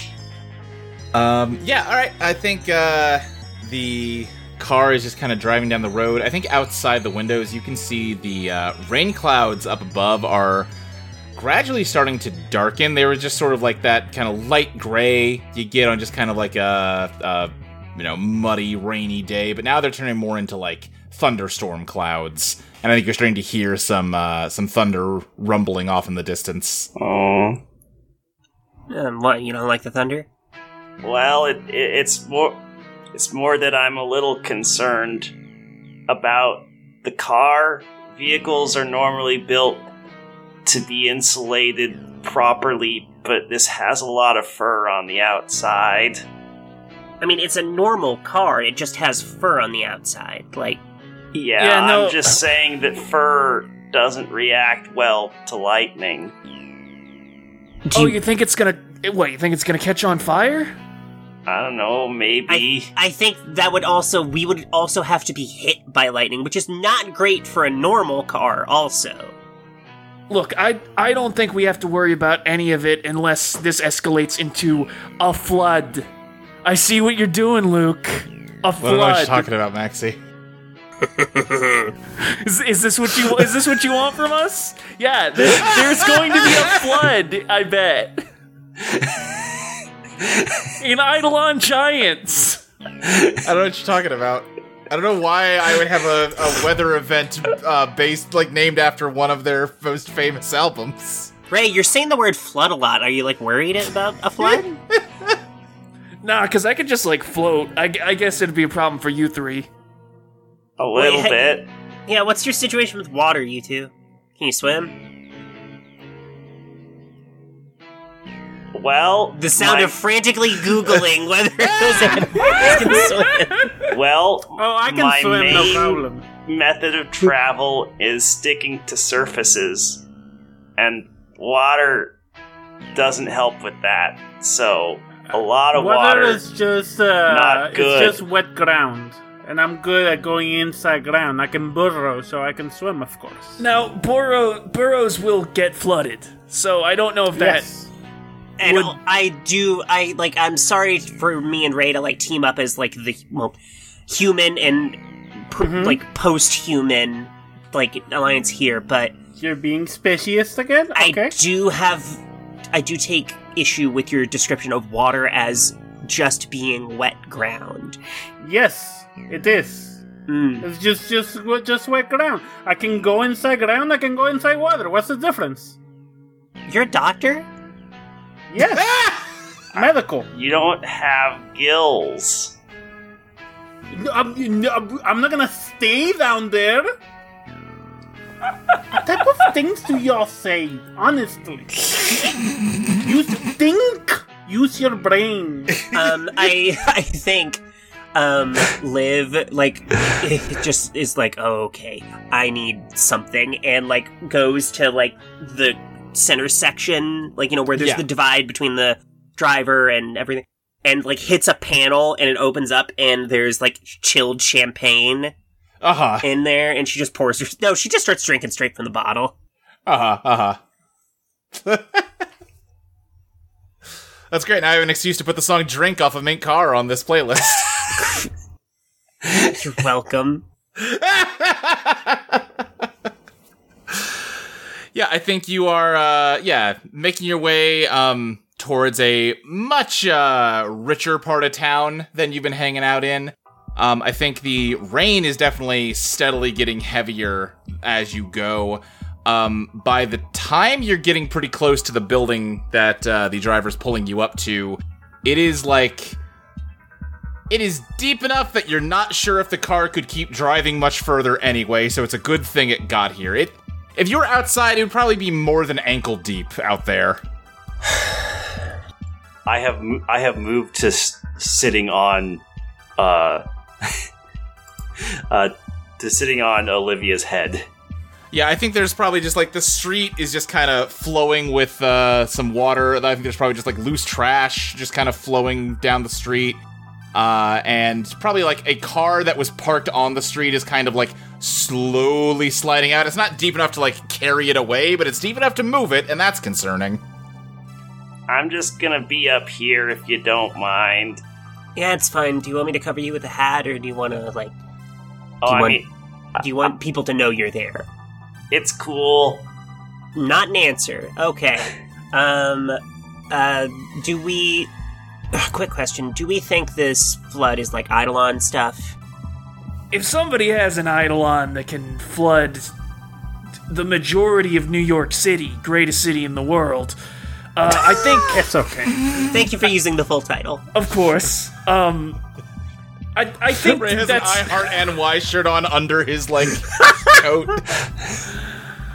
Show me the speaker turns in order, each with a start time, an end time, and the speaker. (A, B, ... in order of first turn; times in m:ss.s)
0:01.1-0:10.7 A
0:11.3-0:26.9 A
0:27.0-0:27.6 B
0:28.9-0:30.3 C
0:31.0-0:32.6 B
0:33.1-0:35.3 B
0:36.1-0:39.9 B
0:40.6-0:46.2 B
0:47.2-0:50.8 C
0:51.3-0:56.3 B
0:51.6-0:52.4 D
0:57.9-0:58.2 C
0:57.9-1:00.7 D
1:01.4-1:02.9 B
1:02.5-1:09.3 C
1:10.3-1:16.1 D
1:16.6-1:19.5 D
1:18.8-1:20.2 A
1:22.2-1:28.2 D
1:25.5-1:26.4 A
1:28.9-1:29.5 B
1:30.8-1:32.6 D
1:33.1-1:33.4 B
1:33.4-1:41.3 A
1:41.5-1:44.7 C
1:44.4-1:45.3 A
1:46.2-1:49.7 D
1:50.8-1:51.7 B
1:50.9-1:51.4 C
1:52.1-1:54.9 C
1:58.7-2:00.0 B
1:59.3-2:03.8 C
2:01.9-2:02.4 A
2:02.5-2:03.9 D
2:03.8-2:10.0 B
2:04.6-2:06.2 E
2:05.5-2:06.0 C
2:10.8-2:12.1 B
2:12.9-2:16.4 B
2:15.7-2:23.6 E
2:17.2-2:18.2 B
2:23.6-2:27.7 D
2:27.3-2:27.9 E
2:28.6-2:33.6 C
2:28.6-2:28.9 D
2:34.1-2:39.2 C
2:35.6-2:36.0 E
2:39.4-2:41.4 E
2:40.9-2:42.2 C
2:42.7-2:48.0 C
2:48.4-2:50.0 E
2:50.3-2:50.7 C
2:50.6-2:55.8 E
2:56.7-2:57.5 C
2:58.5-2:59.0 E
2:58.6-2:59.2 A
2:59.7-3:00.3 E
2:59.8-3:02.5 B
3:03.9-3:06.9 E
3:08.9-3:12.1 E
3:12.8-3:16.0 E
3:15.9-3:17.6 C
3:18.1-3:35.3 C
3:27.8-3:28.0 A
3:35.8-3:36.3 A
3:36.2-3:39.3 C
3:39.8-3:40.6 A
3:41.6-3:42.1 A
3:44.3-3:47.8 A
3:49.3-3:50.4 C
3:50.8-3:52.4 A
3:53.9-3:54.2 A
3:54.9-4:16.2 A
4:17.5-4:27.2 A
4:29.4-4:32.4 B
4:33.0-4:34.0 B
4:35.0-4:37.6 B
4:38.3-4:46.6 A
4:47.1-4:57.0 A
4:58.3-5:01.2 B
5:01.8-5:04.5 C
5:05.4-5:05.9 B
5:05.4-5:05.8 C
5:06.4-5:07.9 C
5:08.5-5:09.4 B
5:10.1-5:12.8 C
5:13.3-5:14.7 C
5:15.3-5:19.0 C
5:19.9-5:22.7 D
5:23.7-5:27.0 D
5:27.6-5:28.4 D
5:28.2-5:29.0 E
5:29.2-5:30.6 C
5:30.7-5:32.2 D
5:33.1-5:34.7 D
5:33.5-5:37.9 A